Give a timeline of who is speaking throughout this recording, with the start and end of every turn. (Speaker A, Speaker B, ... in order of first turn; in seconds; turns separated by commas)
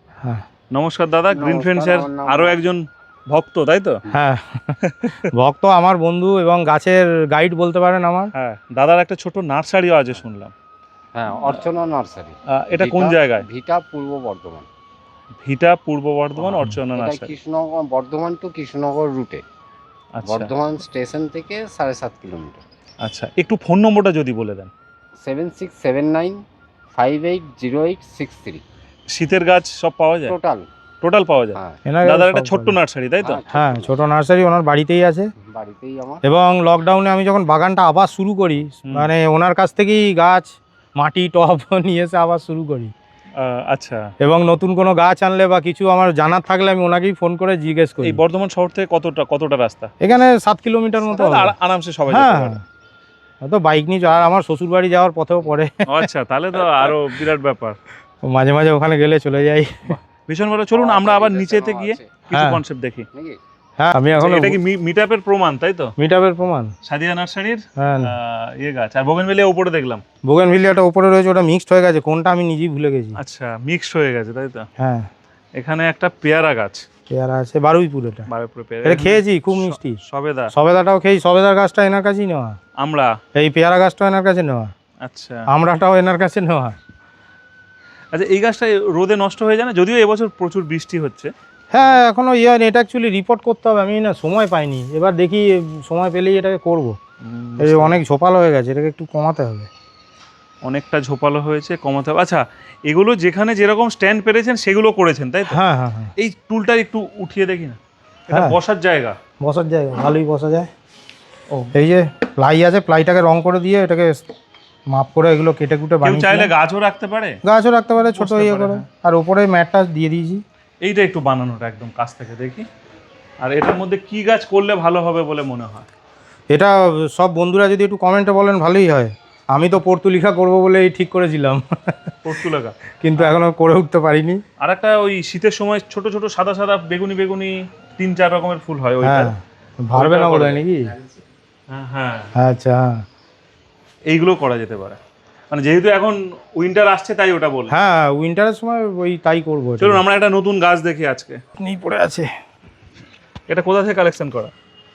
Speaker A: 0.7-4.0, Speaker B: 1.3-2.6, Speaker C: 4.1-4.8, Speaker A: 4.8-5.3, Speaker C: 5.3-8.3, Speaker A: 8.3-10.5, Speaker B: 11.2-14.7, Speaker A: 12.6-13.5, Speaker A: 15.4-17.3, Speaker B: 16.6-19.4, Speaker A: 20.2-20.5, Speaker B: 20.2-22.6, Speaker A: 23.0-24.7, Speaker B: 25.2-26.4, Speaker B: 26.9-28.6, Speaker A: 29.1-30.4, Speaker B: 30.3-30.7, Speaker A: 31.0-33.4, Speaker B: 31.6-31.8, Speaker C: 31.9-32.8, Speaker B: 33.2-34.0, Speaker C: 33.5-35.3, Speaker B: 35.5-36.2, Speaker C: 36.2-42.9, Speaker A: 43.4-44.0, Speaker C: 44.2-48.2, Speaker A: 48.0-49.9, Speaker C: 50.0-51.5, Speaker A: 51.0-52.6, Speaker C: 52.1-52.6, Speaker C: 53.4-56.1, Speaker A: 55.9-57.8, Speaker C: 58.2-60.0, Speaker A: 59.9-63.1, Speaker B: 60.7-62.2, Speaker C: 62.3-62.6, Speaker B: 63.1-63.4, Speaker C: 63.8-64.6, Speaker A: 64.2-65.9, Speaker C: 66.0-66.7, Speaker A: 66.8-70.0, Speaker C: 67.8-68.1, Speaker C: 70.3-73.2, Speaker A: 73.2-74.7, Speaker C: 74.8-75.1, Speaker A: 75.6-76.8, Speaker C: 77.1-78.3, Speaker A: 78.3-80.5, Speaker C: 78.8-80.0, Speaker C: 80.5-82.6, Speaker A: 82.8-83.1, Speaker C: 83.3-84.7, Speaker A: 85.0-85.5, Speaker C: 85.5-86.8, Speaker A: 88.1-91.3, Speaker C: 91.7-97.0, Speaker A: 97.2-98.0, Speaker C: 97.6-99.7, Speaker A: 100.7-105.6, Speaker C: 105.5-106.1, Speaker A: 106.2-109.2, Speaker C: 108.3-108.6, Speaker C: 109.4-110.7, Speaker C: 111.7-114.2, Speaker C: 114.9-116.5, Speaker A: 116.0-117.4, Speaker C: 117.4-120.4, Speaker A: 118.0-118.8, Speaker A: 120.8-122.7, Speaker A: 123.4-125.9, Speaker C: 126.5-132.2, Speaker A: 132.2-133.4, Speaker C: 133.0-134.4, Speaker A: 134.6-139.3, Speaker C: 139.0-140.9, Speaker A: 139.9-141.2, Speaker A: 141.7-142.3, Speaker C: 142.4-143.0, Speaker A: 144.1-145.0, Speaker A: 145.5-147.7, Speaker C: 147.7-150.0, Speaker A: 149.8-151.4, Speaker C: 151.6-152.3, Speaker A: 153.5-154.5